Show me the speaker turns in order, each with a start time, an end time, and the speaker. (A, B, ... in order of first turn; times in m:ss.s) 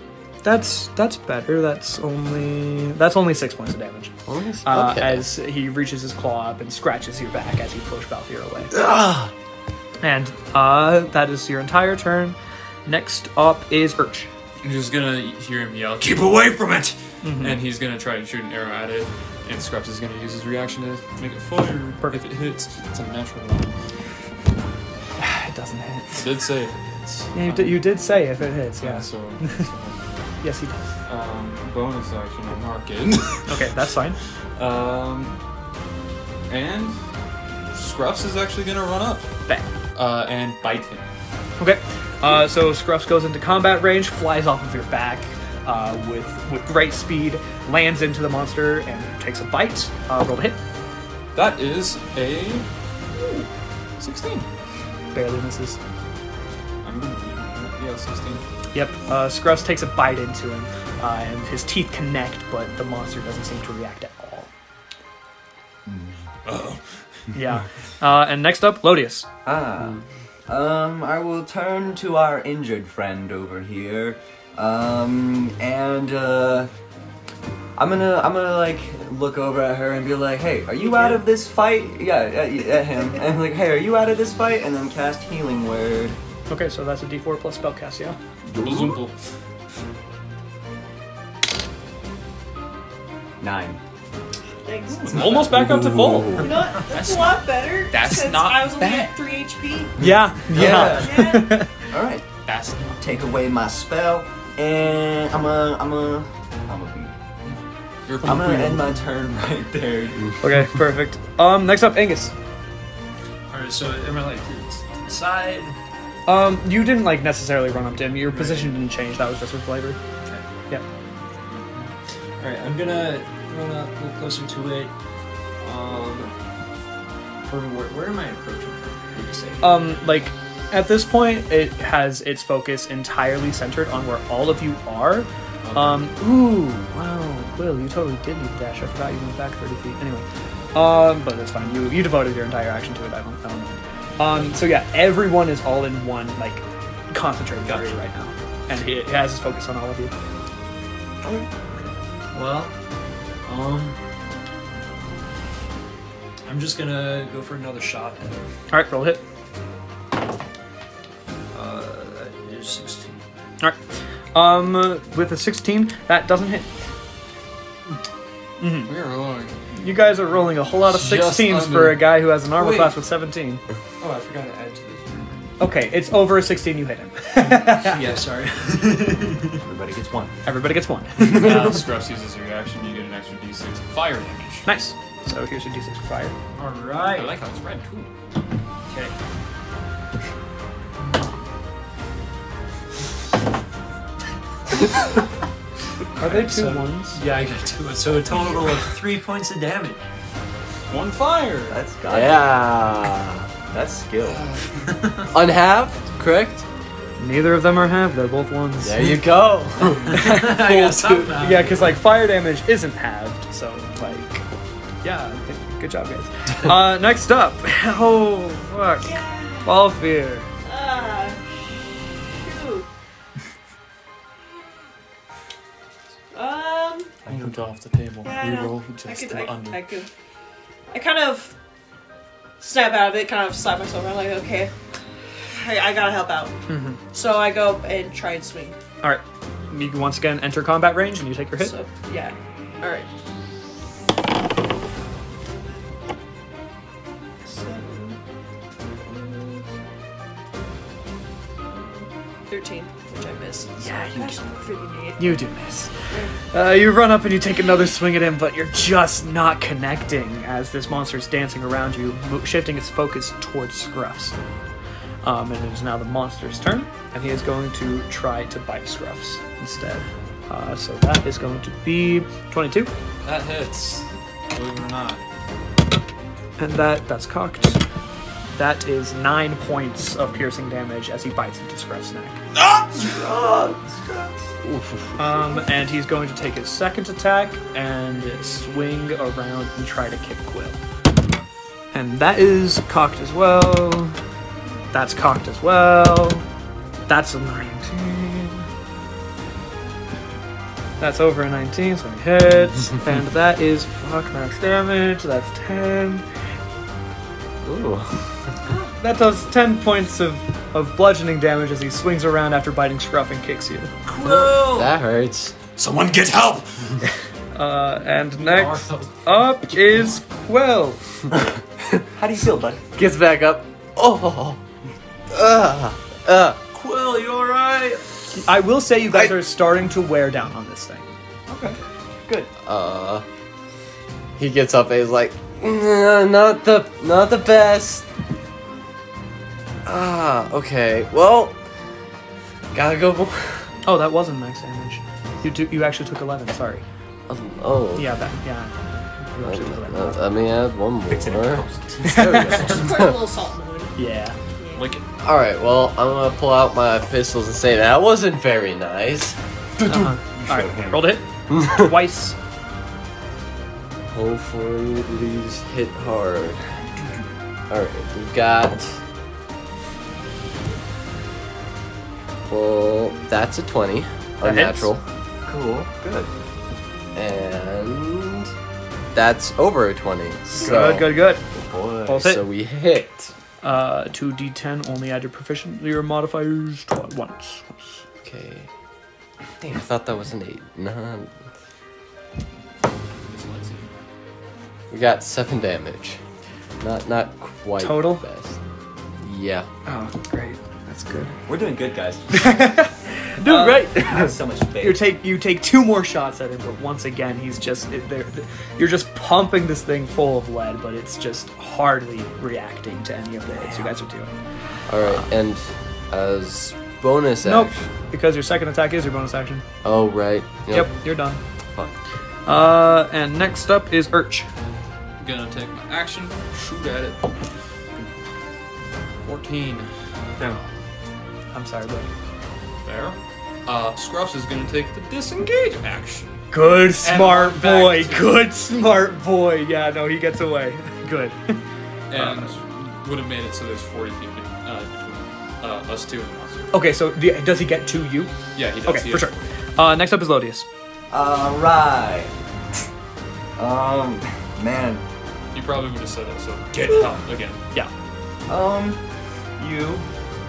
0:00.4-0:04.1 A
0:04.3-0:05.3 B
0:04.6-0:08.7 A
0:08.7-0:09.3 B
0:10.0-0:14.3 A
0:14.6-0:23.7 C
0:17.2-0:17.6 A
0:25.2-0:26.3 A
0:26.1-0:27.9 C
0:27.3-0:29.7 A
0:28.8-0:30.3 C
0:30.4-0:30.8 A
0:31.1-0:33.6 C
0:33.5-0:34.2 A
0:34.6-0:35.4 C
0:36.5-0:37.0 C
0:37.7-0:39.3 C
0:40.0-0:41.1 C
0:41.6-0:50.6 A
0:51.4-0:53.5 C
0:54.0-0:54.5 C
0:55.1-0:55.8 A
0:56.8-0:58.4 C
0:58.7-1:04.5 A
1:05.9-1:06.2 D
1:06.5-1:06.8 C
1:07.3-1:09.3 A
1:09.4-1:16.7 D
1:17.8-1:26.2 D
1:20.9-1:21.2 E
1:26.5-1:28.2 A
1:28.5-1:29.0 D
1:28.6-1:29.2 C
1:33.4-1:33.8 D
1:34.6-1:35.2 E
1:34.9-1:35.6 C
1:35.1-1:36.5 A
1:35.6-1:36.4 B
1:36.4-1:40.0 E
1:36.8-1:39.2 C
1:40.0-1:41.7 A
1:40.5-1:41.4 D
1:40.8-1:41.6 E
1:41.9-1:42.3 D
1:42.4-1:43.0 C
1:43.0-1:47.1 D
1:48.1-1:48.8 C
1:48.2-1:50.4 D
1:50.4-1:52.3 A
1:53.5-1:55.8 F
1:56.3-2:00.0 A
1:58.3-1:58.8 F
2:01.5-2:04.9 F
2:05.6-2:06.3 F
2:07.4-2:10.0 F
2:09.6-2:30.1 A
2:31.7-2:32.7 F
2:33.4-2:34.0 F
2:36.5-2:38.4 F
2:38.7-2:39.2 A
2:41.5-2:43.3 F
2:44.3-2:46.7 A
2:48.6-2:48.9 A
2:48.8-2:49.6 C
2:49.7-2:53.6 A
2:50.9-2:53.0 C
2:54.0-2:55.0 C
2:55.6-2:58.0 A
2:57.4-2:59.6 F
2:59.6-3:00.3 D
3:00.4-3:01.8 A
3:01.2-3:04.7 C
3:04.7-3:06.4 A
3:06.6-3:07.4 F
3:07.1-3:08.1 C
3:16.2-3:17.2 A
3:16.2-3:20.0 F
3:20.9-3:21.8 C
3:21.7-3:22.6 D
3:22.1-3:23.5 B
3:23.7-3:24.4 D
3:24.2-3:25.0 C
3:24.9-3:25.3 F
3:25.3-3:26.6 B
3:27.2-3:29.1 A
3:28.8-3:30.3 B
3:30.1-3:34.5 A
3:30.1-3:32.0 F
3:35.0-3:40.5 A
3:39.0-3:39.8 E
3:40.6-3:42.9 E
3:46.3-3:47.2 E
3:47.3-3:50.0 C
3:48.2-3:50.1 E
3:50.9-3:51.5 E
3:52.6-3:54.7 E
3:55.5-3:56.6 E
3:56.7-3:57.0 A
3:57.1-3:58.8 E
3:59.0-4:01.7 A
4:01.6-4:03.1 E
4:07.4-4:08.2 E
4:09.0-4:09.7 E
4:11.6-4:15.4 E
4:13.8-4:14.4 A
4:15.2-4:15.9 A
4:16.1-4:16.4 E
4:16.5-4:24.4 A
4:25.2-4:32.9 A
4:33.2-4:35.2 C
4:36.6-4:37.8 A
4:38.5-4:42.4 A
4:42.5-4:43.1 C
4:43.0-4:44.4 D
4:44.6-4:45.2 B
4:45.2-4:50.8 A
4:51.9-4:54.2 A
4:54.9-4:56.4 A
4:57.1-4:58.7 A
5:01.0-5:06.2 A
5:07.6-5:08.4 B
5:08.7-5:08.9 E
5:09.0-5:13.9 A
5:14.1-5:14.9 F
5:14.3-5:15.6 B
5:15.8-5:17.0 C
5:17.5-5:21.0 A
5:18.3-5:19.1 F
5:22.2-5:22.8 D
5:23.0-5:24.6 B
5:25.3-5:26.6 B
5:26.7-5:28.0 F
5:28.3-5:31.1 A
5:31.5-5:32.5 D
5:32.6-5:33.2 B
5:34.4-5:38.1 B
5:39.8-5:41.6 B
5:42.7-5:43.7 B
5:43.8-5:46.8 A
5:47.3-5:48.1 B
5:48.0-5:50.3 A
5:49.4-5:53.2 B
5:51.2-5:52.7 C
5:52.1-5:52.6 A
5:52.5-5:54.0 E
5:54.0-5:54.4 A
5:54.6-5:54.9 E
5:54.8-5:55.0 C
5:55.2-5:59.4 B
5:59.8-6:01.2 D
5:59.9-6:02.4 A
6:01.5-6:01.9 B
6:04.1-6:06.7 B
6:07.7-6:09.0 B
6:12.5-6:15.0 B
6:14.4-6:14.9 A
6:15.5-6:16.3 D
6:17.2-6:18.5 B
6:19.1-6:23.3 B
6:20.5-6:21.4 A
6:22.1-6:22.4 A
6:23.6-6:28.0 A
6:28.2-6:28.7 B
6:29.6-6:31.3 B
6:33.2-6:33.9 C
6:34.9-6:36.2 B
6:36.8-6:38.6 B
6:37.8-6:38.2 A
6:39.2-6:39.7 B
6:39.8-6:41.4 A
6:41.5-6:42.6 D
6:42.3-6:54.3 A
6:43.4-6:45.1 D
6:43.5-6:44.3 B
6:54.9-6:57.9 B
6:57.4-6:59.6 A
6:59.8-7:01.0 B
7:00.7-7:01.4 A
7:02.5-7:04.5 A
7:05.2-7:07.3 C
7:09.2-7:10.6 C
7:11.5-7:12.1 A
7:12.8-7:18.4 C
7:16.5-7:21.6 A
7:22.1-7:26.9 C
7:22.1-7:22.6 A
7:26.7-7:30.7 A
7:28.6-7:29.5 C
7:31.1-7:32.3 D
7:33.6-7:35.0 D
7:35.5-7:37.6 C
7:38.5-7:39.0 D
7:39.6-7:40.1 D